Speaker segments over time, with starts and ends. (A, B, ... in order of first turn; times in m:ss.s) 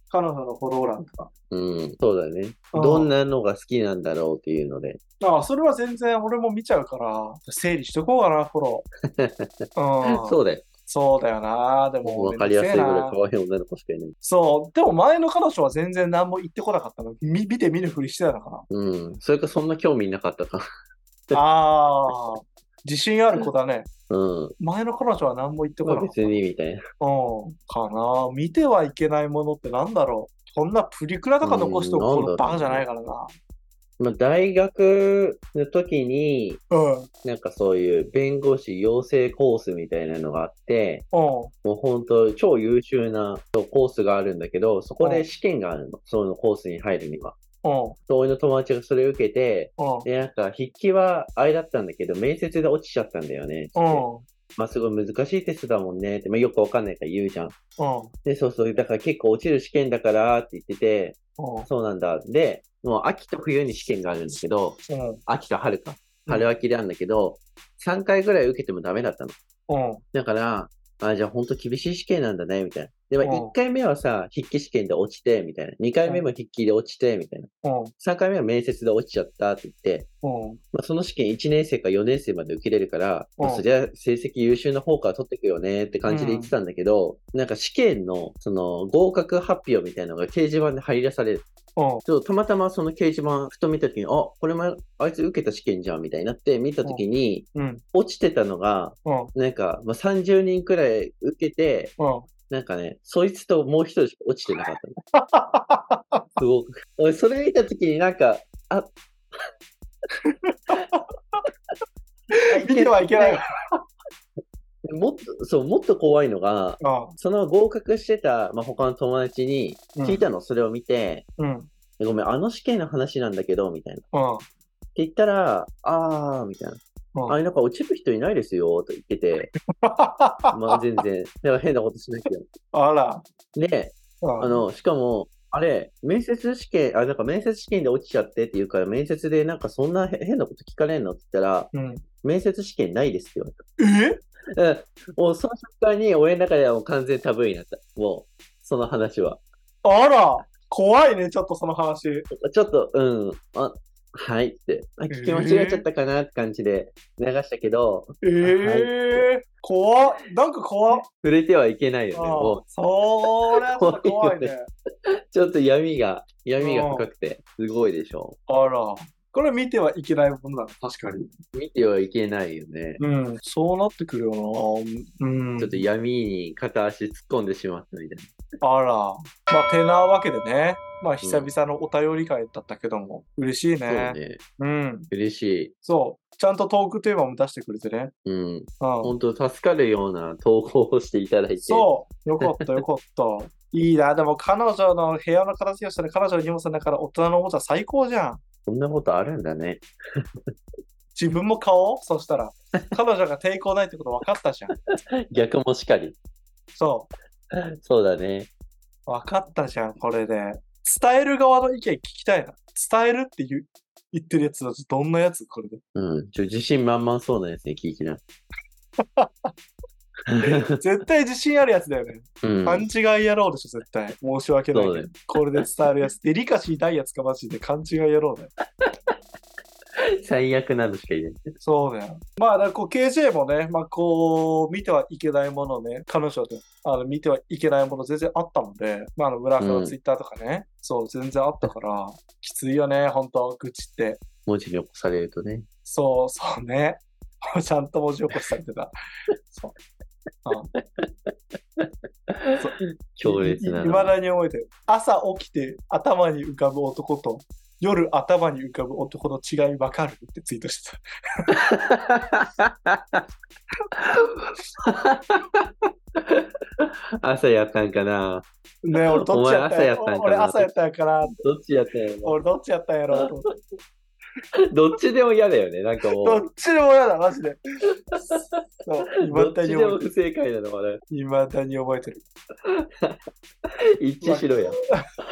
0:00.1-0:01.3 A
0:01.5-0:05.0 B
0:02.7-0:03.1 A
0:05.2-0:08.9 A
0:09.1-0:09.5 B
0:09.8-0:13.2 A
0:10.0-0:10.7 B
0:12.0-0:14.2 B
0:14.2-0:18.6 A
0:18.7-0:20.6 B
0:21.3-0:23.9 A
0:24.1-0:24.6 B
0:24.6-0:26.4 A
0:25.8-0:26.8 B
0:27.0-0:33.3 A
0:31.4-0:32.8 B
0:34.0-0:36.6 B
0:36.7-0:37.1 A
0:37.2-0:41.1 B
0:41.1-0:41.5 A
0:41.6-0:47.4 B
0:45.0-0:45.3 A
0:47.6-0:48.0 A
0:48.1-0:54.0 B
0:49.8-0:50.1 A
0:53.8-0:54.2 A
0:54.6-0:57.6 B
0:57.8-0:58.1 A
0:58.2-1:09.4 B
1:01.4-1:01.7 A
1:04.9-1:05.2 A
1:06.3-1:06.5 A
1:09.7-1:10.0 A
1:10.1-1:20.1 B
1:13.2-1:13.5 A
1:17.6-1:17.9 A
1:20.2-1:20.6 A
1:20.7-1:31.5 B
1:23.4-1:23.6 A
1:26.1-1:26.5 A
1:31.8-1:32.0 A
1:32.0-1:41.9 B
1:36.8-1:37.8 A
1:39.0-1:39.3 A
1:42.0-1:42.3 A
1:42.5-1:45.0 B
1:45.1-1:46.3 A
1:46.4-1:48.9 B
1:50.3-1:51.4 A
1:52.5-1:53.4 B
1:52.5-1:53.8 A
1:54.8-2:01.3 B
1:56.8-1:57.1 A
2:00.0-2:00.3 A
2:01.4-2:01.7 A
2:02.0-2:04.0 B
2:04.1-2:04.4 A
2:05.0-2:09.5 B
2:09.8-2:10.8 A
2:10.5-2:12.4 B
2:12.7-2:13.2 A
2:13.6-2:23.6 B
2:14.2-2:14.7 A
2:21.7-2:22.0 A
2:23.8-2:24.2 A
2:24.6-2:29.4 B
2:29.8-2:32.3 A
2:32.3-2:39.3 B
2:35.1-2:35.8 A
2:38.2-2:41.0 A
2:40.9-2:42.6 B
2:42.1-2:44.7 A
2:43.6-2:44.5 B
2:45.3-2:48.4 B
2:46.6-2:47.1 A
2:48.5-2:51.3 A
2:51.5-2:53.0 B
2:53.0-2:55.9 A
2:55.6-2:58.3 B
2:58.6-3:05.1 A
3:01.2-3:01.5 B
3:03.9-3:04.4 B
3:05.1-3:05.7 B
3:05.8-3:08.1 A
3:08.2-3:11.9 B
3:08.8-3:09.1 A
3:11.6-3:18.4 A
3:18.7-3:20.2 B
3:21.2-3:24.7 A
3:25.3-3:26.2 B
3:26.7-3:27.1 A
3:27.5-3:28.5 B
3:29.1-3:35.8 A
3:36.0-3:38.2 B
3:39.0-3:39.5 A
3:40.3-3:40.7 B
3:40.4-3:48.5 A
3:42.4-3:42.8 B
3:44.7-3:45.7 B
3:50.0-3:51.4 B
3:51.6-4:04.2 A
3:59.6-4:00.0 B
4:04.5-4:05.6 B
4:05.8-4:08.9 A
4:10.5-4:11.1 B
4:11.8-4:14.2 B
4:12.6-4:21.5 A
4:21.6-4:23.2 B
4:24.8-4:25.6 B
4:26.2-4:30.7 B
4:28.8-4:31.4 A
4:31.3-4:32.4 B
4:32.2-4:33.5 A
4:34.6-4:36.5 B
4:36.2-4:37.6 A
4:38.1-4:40.0 A
4:38.1-4:38.6 B
4:39.2-4:41.0 B
4:41.1-4:42.2 A
4:42.6-4:43.2 B
4:44.0-4:44.8 B
4:44.2-4:45.0 A